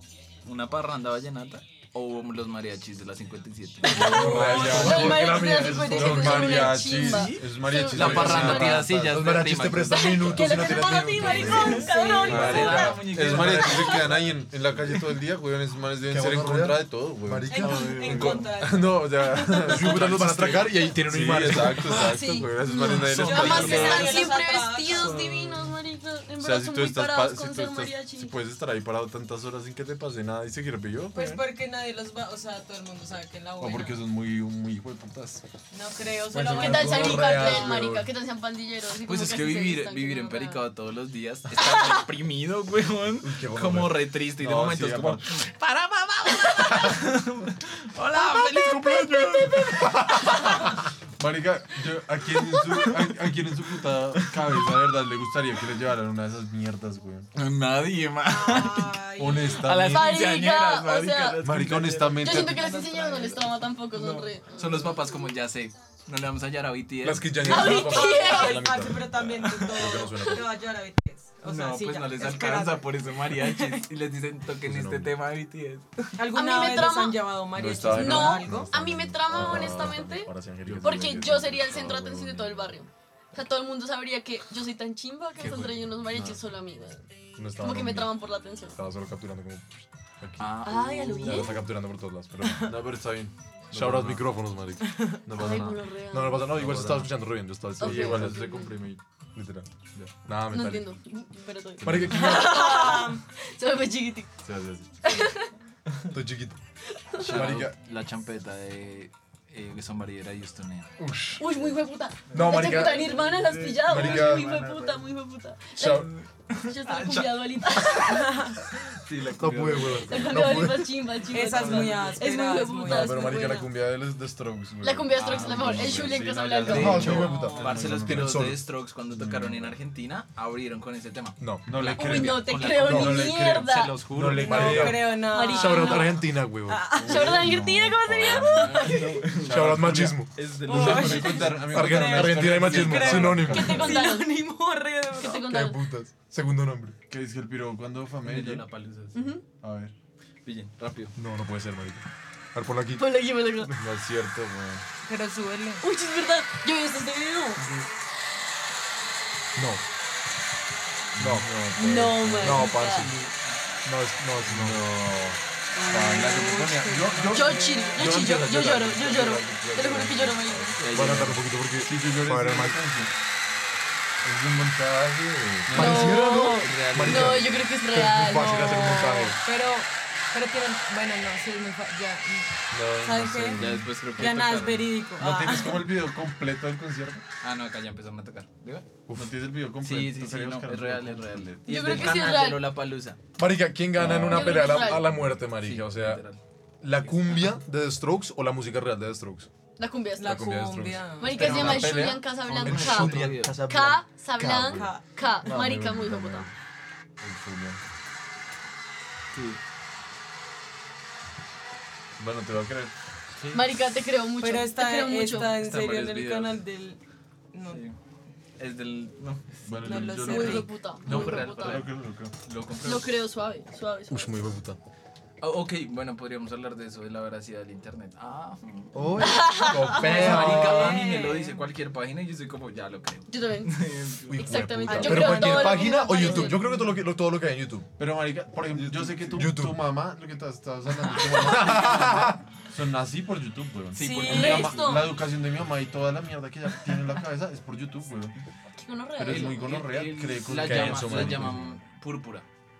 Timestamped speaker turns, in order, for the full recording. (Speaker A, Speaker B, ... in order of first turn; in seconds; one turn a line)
Speaker A: 0.4-5.2
Speaker B: 3.8-8.9
Speaker C: 3.9-6.9
Speaker D: 4.1-9.2
Speaker A: 6.8-10.8
Speaker C: 7.9-13.8
Speaker B: 9.9-13.0
Speaker E: 11.1-12.8
Speaker A: 11.4-14.3
Speaker D: 12.2-24.1
Speaker C: 16.1-18.5
Speaker E: 17.5-20.0
Speaker A: 17.6-18.4
Speaker C: 19.6-23.6
Speaker B: 21.9-28.4
Speaker A: 23.0-24.3
Speaker E: 23.2-25.3
Speaker A: 24.9-25.7
Speaker D: 26.4-31.4
Speaker E: 31.1-34.0
Speaker D: 33.6-35.4
Speaker E: 35.7-37.8
Speaker C: 36.3-38.1
Speaker B: 36.5-40.6
Speaker A: 39.0-50.5
Speaker B: 41.6-41.9
Speaker C: 43.2-43.9
Speaker D: 44.4-45.4
Speaker B: 48.1-49.9
Speaker C: 49.9-50.2
Speaker D: 51.2-57.3
Speaker A: 52.6-53.0
Speaker A: 54.1-54.5
Speaker A: 57.3-67.6
Speaker E: 58.2-59.7
Speaker D: 59.2-60.2
Speaker B: 59.9-61.4
Speaker D: 61.4-62.7
Speaker C: 61.5-61.8
Speaker B: 62.2-65.0
Speaker C: 67.0-70.5
Speaker B: 67.5-68.6
Speaker E: 67.5-73.8
Speaker A: 69.2-69.9
Speaker A: 71.4-76.1
Speaker D: 74.7-75.1
Speaker E: 76.2-78.7
Speaker B: 76.3-77.2
Speaker D: 77.5-82.7
Speaker B: 77.9-87.0
Speaker C: 79.2-81.2
Speaker D: 86.1-86.3
Speaker C: 87.4-88.1
Speaker B: 87.6-88.8
Speaker C: 88.8-90.4
Speaker A: 90.4-91.6
Speaker B: 90.6-91.5
Speaker C: 91.2-92.8
Speaker D: 92.6-94.3
Speaker C: 93.7-98.4
Speaker E: 94.8-95.2
Speaker D: 95.3-95.8
Speaker B: 95.3-96.5
Speaker D: 96.4-99.0
Speaker B: 97.8-98.7
Speaker C: 99.3-99.7
Speaker C: 100.2-100.9
Speaker B: 100.5-104.3
Speaker D: 101.8-102.2
Speaker C: 101.8-102.7
Speaker E: 102.1-103.2
Speaker D: 104.4-105.2
Speaker B: 105.0-105.5
Speaker C: 106.1-106.5
Speaker B: 106.9-107.4
Speaker A: 107.2-110.9
Speaker C: 107.2-107.7
Speaker C: 111.0-111.4
Speaker B: 111.4-118.4
Speaker C: 112.3-113.2
Speaker A: 112.3-115.0
Speaker C: 113.8-114.6
Speaker C: 115.8-116.1
Speaker A: 115.8-118.0
Speaker E: 118.1-118.5
Speaker A: 118.9-120.5
Speaker C: 119.4-121.0
Speaker B: 120.0-123.7
Speaker E: 121.3-123.5
Speaker A: 121.5-122.1
Speaker C: 122.8-124.0
Speaker D: 123.7-128.6
Speaker B: 124.8-127.2
Speaker A: 125.2-126.1
Speaker C: 126.6-128.6
Speaker A: 126.7-134.9
Speaker E: 127.0-127.8
Speaker D: 129.1-129.8
Speaker C: 131.4-132.3
Speaker D: 131.7-135.0
Speaker B: 131.9-134.0
Speaker C: 132.8-133.3
Speaker C: 134.1-137.6
Speaker E: 134.5-137.3
Speaker B: 135.2-136.2
Speaker D: 136.9-144.0
Speaker B: 137.0-139.2
Speaker A: 138.6-141.6
Speaker C: 139.4-144.0
Speaker E: 140.6-145.4
Speaker B: 143.5-144.4
Speaker B: 145.2-145.8
Speaker C: 145.4-147.0
Speaker D: 147.1-148.7
Speaker A: 148.2-149.2
Speaker B: 149.1-149.4
Speaker D: 149.6-149.9
Speaker A: 150.4-151.1
Speaker C: 151.2-153.9
Speaker B: 153.0-153.7
Speaker D: 153.8-154.8
Speaker E: 155.0-155.8
Speaker B: 155.8-157.6
Speaker C: 159.6-159.8
Speaker D: 161.1-163.2
Speaker C: 161.2-163.3
Speaker B: 161.7-163.1
Speaker C: 163.8-164.9
Speaker D: 164.4-173.1
Speaker E: 165.8-168.1
Speaker B: 167.2-170.8
Speaker A: 170.8-171.4
Speaker C: 170.9-172.8
Speaker D: 174.2-176.2
Speaker C: 175.6-179.4
Speaker B: 175.7-179.3
Speaker A: 175.9-177.6
Speaker E: 178.4-185.9
Speaker C: 182.7-183.8
Speaker D: 182.8-183.9
Speaker A: 183.6-184.9
Speaker D: 185.2-187.2
Speaker A: 187.4-188.9
Speaker C: 189.1-189.3
Speaker D: 189.1-191.5
Speaker A: 189.8-193.2
Speaker B: 191.7-192.6
Speaker C: 193.4-196.2
Speaker D: 194.0-195.3
Speaker B: 194.3-195.1
Speaker A: 195.6-196.4
Speaker C: 196.8-199.5
Speaker A: 197.0-197.5
Speaker B: 199.8-200.5
Speaker E: 200.2-201.8
Speaker C: 200.2-204.9
Speaker B: 201.2-206.5
Speaker D: 201.4-202.2
Speaker A: 201.4-203.7
Speaker E: 204.7-205.2
Speaker C: 205.4-206.5
Speaker D: 205.6-205.9
Speaker D: 207.2-207.8
Speaker A: 209.3-209.6
Speaker D: 212.2-212.9
Speaker A: 213.4-213.7
Speaker B: 213.5-215.5
Speaker E: 214.4-217.0
Speaker A: 215.4-216.6
Speaker E: 217.5-217.8
Speaker A: 217.6-218.0
Speaker A: 218.6-220.0
Speaker D: 219.7-222.3
Speaker E: 219.8-220.7
Speaker B: 220.2-221.8
Speaker A: 221.0-223.2
Speaker B: 222.8-224.4
Speaker C: 224.1-224.8
Speaker A: 225.4-234.4
Speaker C: 228.9-231.0
Speaker B: 229.2-230.3
Speaker E: 230.1-231.6
Speaker B: 233.3-236.6
Speaker C: 234.3-237.9
Speaker E: 234.9-236.9
Speaker D: 238.0-248.3
Speaker C: 238.8-239.8
Speaker C: 240.9-242.4
Speaker A: 243.9-244.8
Speaker E: 243.9-244.8
Speaker B: 244.2-245.1
Speaker B: 248.8-249.6
Speaker D: 249.2-251.8
Speaker A: 249.3-252.5
Speaker C: 250.6-251.6